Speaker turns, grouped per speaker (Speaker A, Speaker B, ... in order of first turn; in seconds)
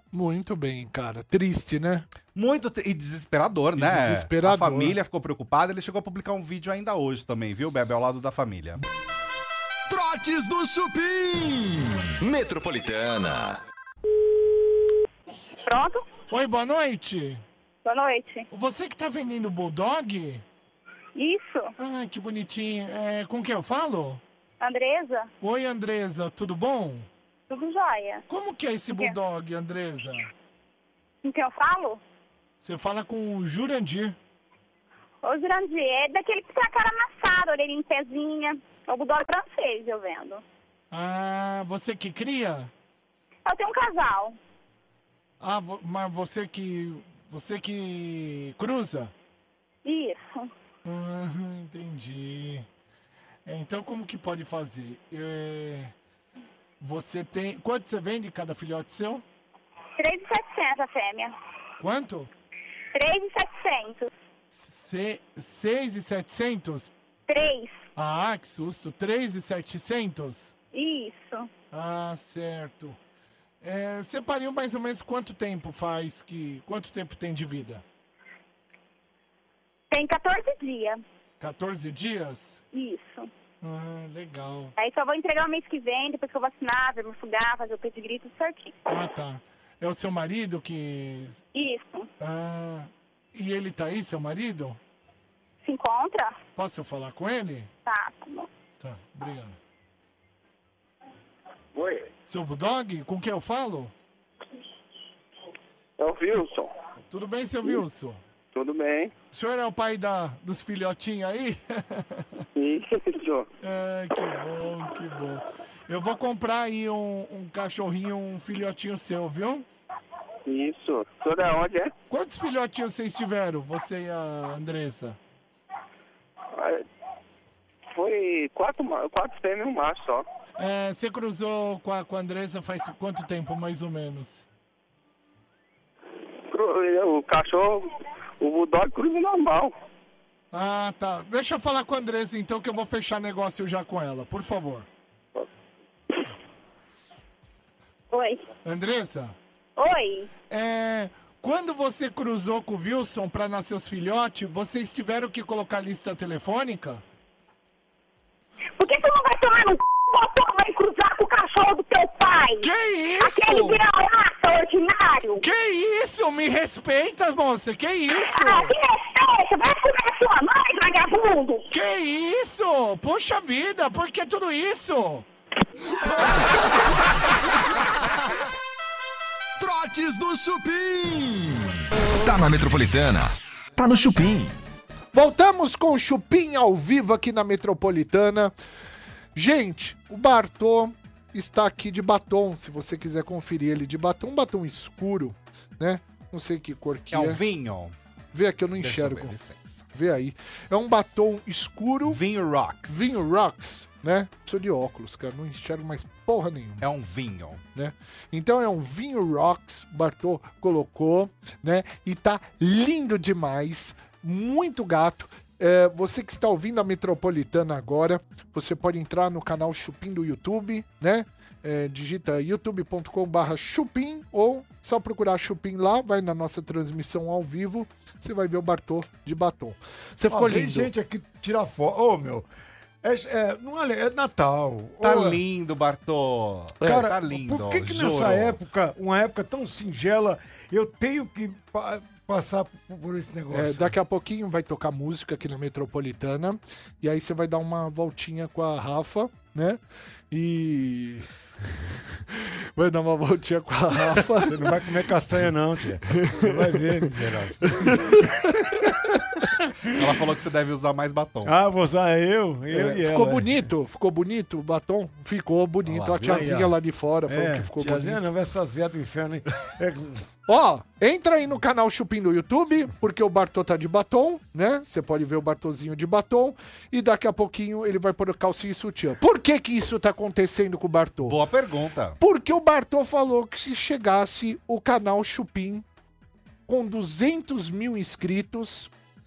Speaker A: 0.1-2.1, 3.8-5.0, 185.1-188.5, 189.3-197.4, 198.3-199.3, 199.9-202.2, 202.9-206.8, 207.7-230.9, 243.5-249.8, 250.3-251.3, 252.2-254.7, 256.1-256.8, 257.8-259.1, 262.7-268.2, 270.5-281.4, 282.2-285.8, 286.7-288.9
Speaker B: 2.3-8.8, 197.1-197.9, 198.8-199.8, 202.1-203.2, 206.8-207.6, 235.0-238.6, 259.9-261.5, 265.9-266.3, 281.2-282.2
Speaker C: 9.9-13.6, 179.6-184.6
Speaker D: 15.7-16.1, 17.8-18.5, 21.1-21.7, 24.6-25.3, 27.5-28.2, 31.2-32.0, 35.2-40.4, 43.5-44.4, 49.8-50.5, 60.0-61.3, 62.9-64.1, 67.3-67.8, 70.7-71.5, 79.9-81.0, 82.7-83.3, 84.8-88.7, 91.5-92.1, 95.6-96.3, 97.8-98.5, 148.1-148.4, 149.8-150.3, 158.8-165.4, 168.2-171.7
Speaker E: 16.3-17.4, 18.5-20.4, 21.8-24.2, 25.4-27.1, 28.3-30.3, 32.6-34.1, 40.9-42.7, 45.4-49.1, 50.8-52.6, 53.4-55.9, 56.8-59.2, 61.8-62.3, 64.5-66.9, 68.0-70.5, 71.7-73.0, 73.6-77.8, 81.4-82.6, 83.6-84.7, 88.9-91.4, 92.2-94.8, 96.5-97.7, 98.8-99.6, 102.2-103.9, 107.1-108.2, 109.3-112.4, 113.6-119.7, 122.1-125.2, 130.6-134.4, 140.5-144.9, 148.6-149.3, 150.5-157.0, 162.6-163.8, 165.4-168.7, 171.7-175.2
Speaker F: 101.7-102.1, 106.0-106.7, 108.5-109.1, 112.5-113.5, 120.5-121.9, 126.5-126.8, 127.9-130.2, 136.5-139.7
Speaker G: 230.3-232.4, 233.0-235.4, 236.8-243.9, 254.3-258.2, 261.4-263.6, 266.1-270.2